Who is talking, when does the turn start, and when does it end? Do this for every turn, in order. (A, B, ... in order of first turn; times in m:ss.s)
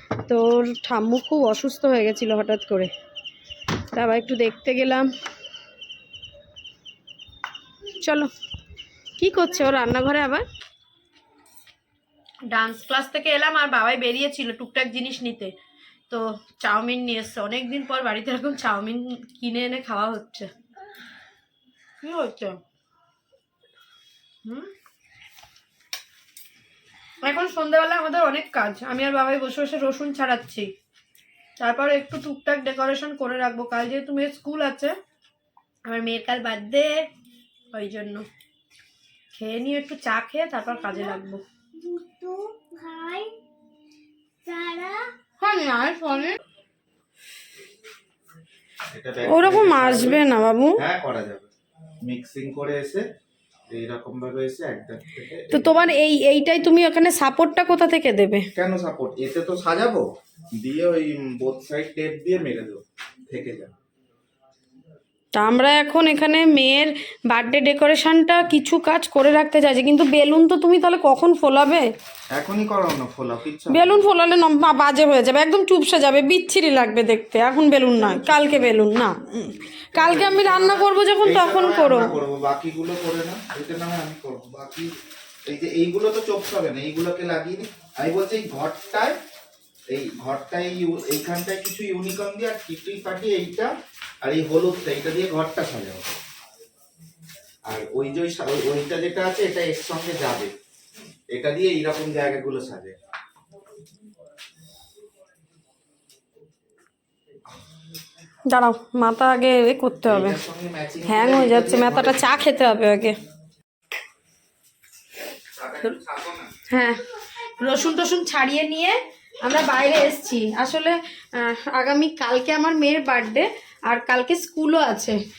0:00.2-0:02.9 A
0:03.9-0:05.1 A
0:08.0-0:08.3 A
0:09.2-0:10.4 A
0:12.5-0:15.5 A
0:16.1-0:20.5 A
0:22.0-0:22.6 A
0:27.2-0:30.7 A
0:31.6-0:34.9 A
0:35.8-0:37.0 A
0:37.7-0:38.2 A
0:39.3-0:41.4 A
0:40.9-0:41.2 B
0:41.7-0:43.3 B
0:44.4-0:45.1 B
0:45.4-0:46.4 A
0:48.9-0:50.2 C
0:49.3-0:50.8 A
0:50.8-0:51.5 C
0:52.0-0:53.0 C
0:53.7-0:55.8 C
0:55.5-0:58.5 A
0:58.6-1:03.7 C
1:05.3-1:11.9 A
1:12.3-1:14.0 C
1:13.7-1:22.2 A
1:20.0-1:24.9 C
1:25.4-1:29.2 C
1:29.9-1:33.7 C
1:34.2-1:36.1 C
1:37.7-1:40.5 C
1:41.3-1:42.9 C
1:48.5-1:50.4 A
1:50.0-1:52.4 C
1:51.1-1:53.2 A
1:55.5-1:56.6 C
1:56.7-1:57.0 A
1:57.6-2:05.2 A